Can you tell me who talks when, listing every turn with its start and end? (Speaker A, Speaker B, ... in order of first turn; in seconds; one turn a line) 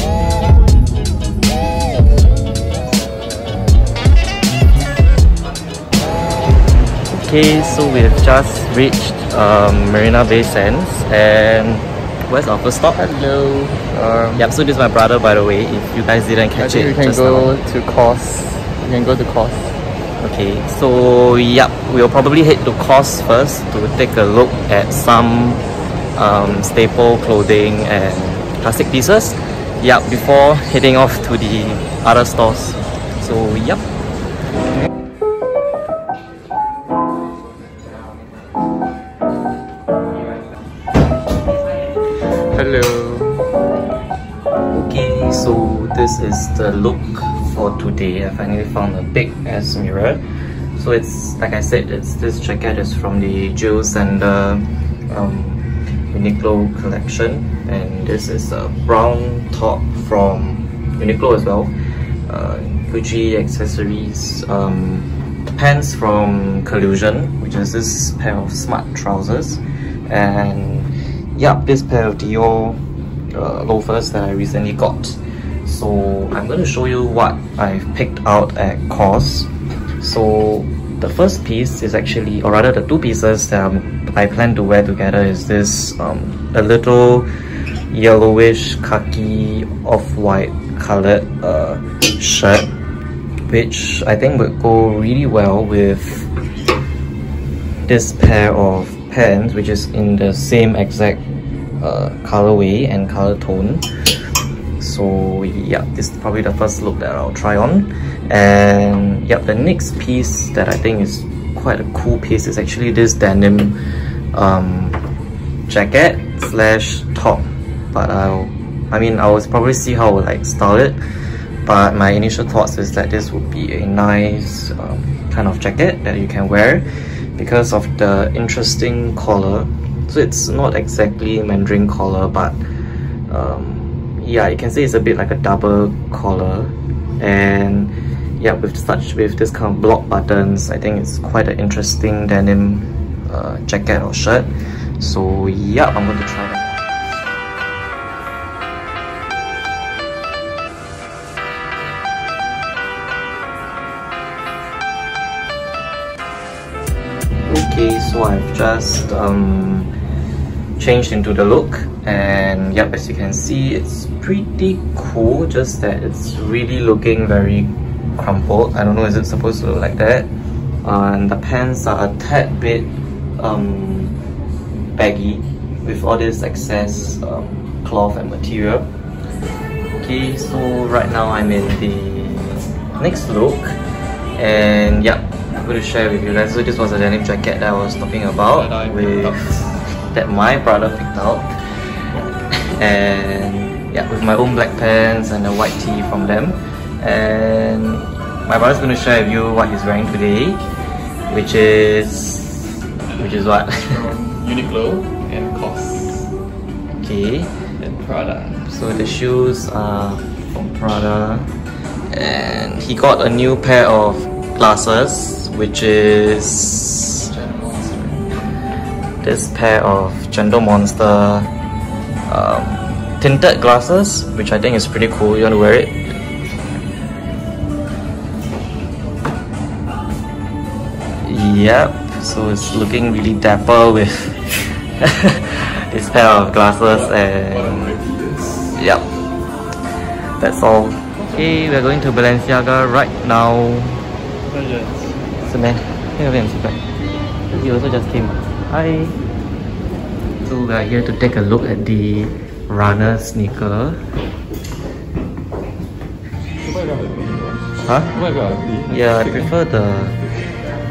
Speaker A: 7.1-13.0
Speaker B: 12.9-14.4
Speaker A: 14.3-17.6
Speaker B: 16.6-19.8
Speaker A: 20.2-25.6
Speaker A: 26.1-33.8
Speaker B: 42.4-43.5
Speaker A: 44.7-92.7
Speaker A: 93.5-96.3
Speaker A: 97.8-101.2
Speaker A: 101.8-103.9
Speaker A: 104.8-115.0
Speaker A: 115.7-146.9
Speaker A: 157.4-159.9
Speaker A: 160.8-170.3
Speaker A: 170.8-174.2
Speaker A: 174.9-178.9
Speaker A: 180.0-183.8
Speaker A: 184.3-191.9
Speaker B: 188.5-189.8
Speaker A: 192.7-200.6
Speaker A: 201.3-204.1
Speaker B: 203.1-206.3
Speaker A: 206.9-207.5
Speaker B: 207.8-208.7
Speaker A: 208.7-211.5
Speaker A: 212.1-218.3
Speaker A: 219.2-221.5
Speaker A: 222.3-226.2
Speaker A: 231.2-238.0
Speaker B: 236.9-238.8
Speaker A: 238.7-239.1
Speaker A: 240.2-244.1
Speaker B: 241.2-241.4
Speaker B: 244.5-245.3
Speaker A: 245.4-246.9
Speaker A: 247.5-249.2
Speaker A: 250.4-254.2
Speaker B: 256.6-259.5
Speaker A: 257.8-258.2
Speaker A: 258.9-260.2